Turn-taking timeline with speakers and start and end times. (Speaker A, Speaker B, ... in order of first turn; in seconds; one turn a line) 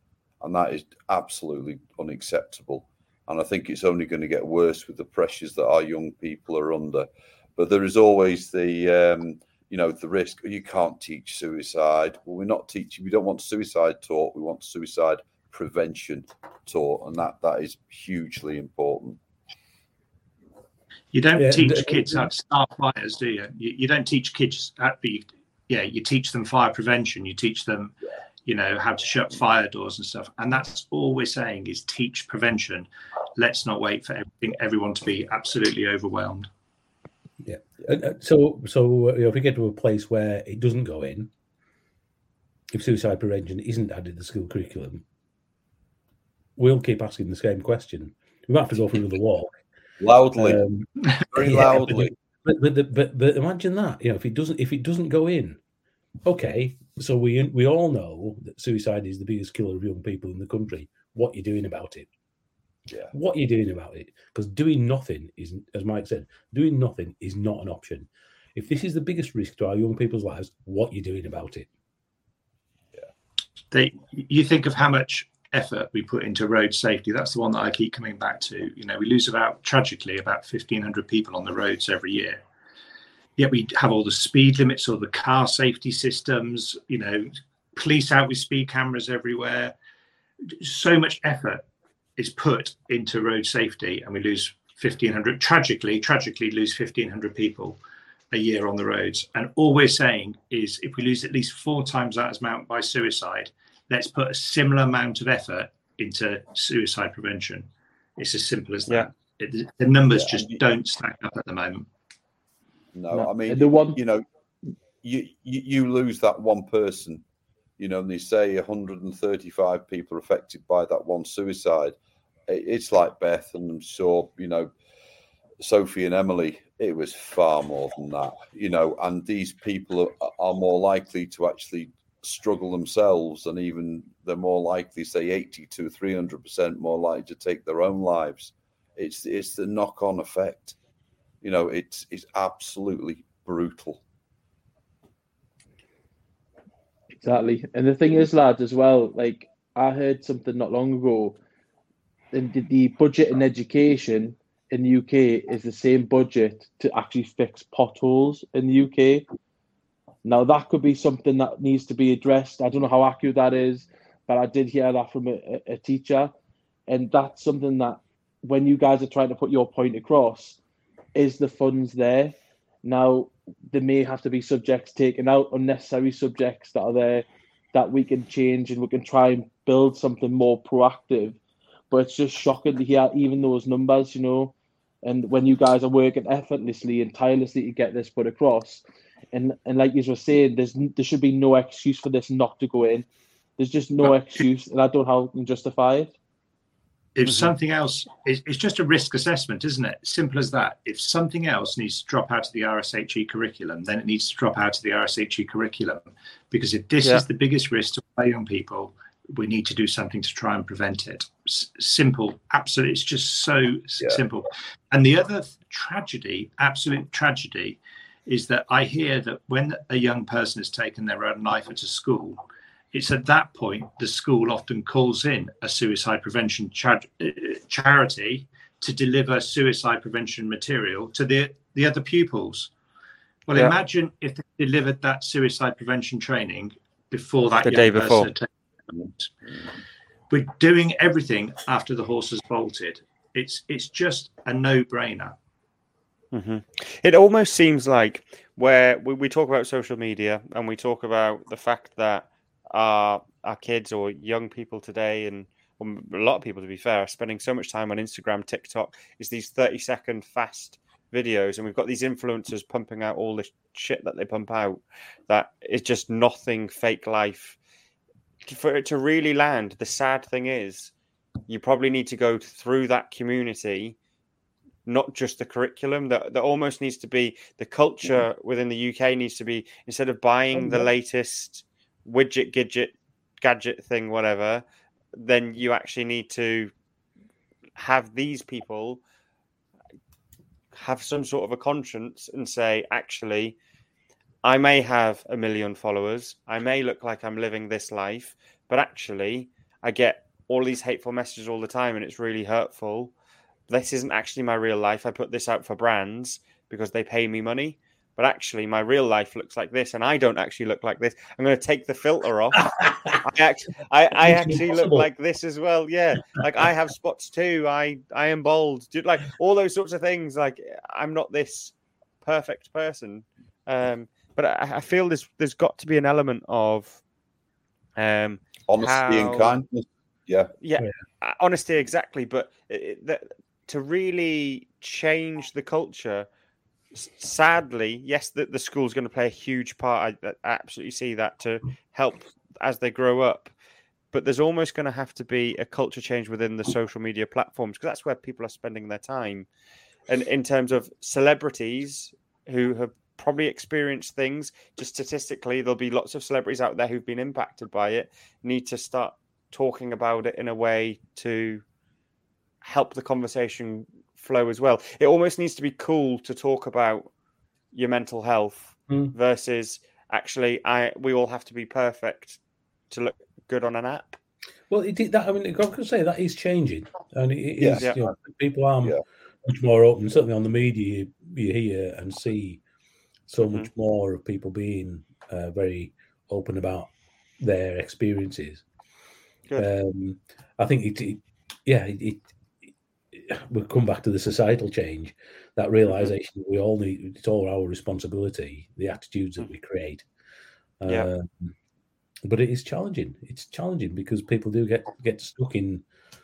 Speaker A: 0.4-19.2
Speaker B: 21.1-27.9
Speaker C: 21.4-22.3
Speaker B: 28.4-36.5
Speaker C: 37.4-41.3
Speaker C: 42.7-45.0
Speaker C: 46.5-49.6
Speaker A: 50.0-50.6
Speaker C: 50.4-55.6
Speaker A: 51.3-52.1
Speaker C: 56.2-62.1
Speaker C: 63.1-71.7
Speaker B: 73.7-82.4
Speaker B: 83.4-89.7
Speaker B: 90.5-91.6
Speaker B: 92.2-97.8
Speaker B: 98.3-111.9
Speaker A: 110.1-110.6
Speaker A: 112.9-114.2
Speaker D: 113.1-114.0
Speaker A: 115.0-117.2
Speaker A: 117.8-122.0
Speaker A: 122.5-124.7
Speaker A: 125.6-140.8
Speaker A: 141.4-144.0
Speaker D: 147.2-151.4
Speaker D: 152.3-159.2
Speaker D: 160.2-166.3
Speaker D: 166.9-170.6
Speaker D: 171.2-181.4
Speaker D: 181.9-193.1
Speaker D: 193.6-196.1
Speaker B: 197.2-222.4
Speaker B: 222.9-232.7
Speaker B: 233.5-239.3
Speaker E: 237.6-238.3
Speaker B: 240.3-245.3
Speaker E: 246.3-267.6
Speaker E: 268.4-270.9
Speaker E: 271.5-273.9
Speaker E: 274.9-284.6
Speaker E: 285.1-286.7
Speaker E: 287.8-289.0
Speaker E: 290.7-293.6
Speaker E: 294.4-303.1
Speaker E: 303.7-312.6
Speaker C: 312.6-313.2
Speaker E: 313.2-327.0
Speaker C: 314.2-315.1
Speaker E: 328.0-329.5
Speaker A: 328.7-330.5
Speaker E: 330.6-336.3
Speaker E: 336.9-343.5
Speaker E: 344.1-349.5
Speaker E: 350.1-361.6
Speaker E: 362.6-367.1
Speaker E: 367.7-374.2
Speaker C: 368.9-369.1
Speaker C: 374.7-382.6
Speaker A: 377.6-378.0
Speaker C: 383.3-388.6
Speaker E: 383.4-383.7
Speaker C: 389.6-392.2
Speaker C: 393.1-400.0
Speaker C: 400.8-401.5
Speaker C: 402.2-405.8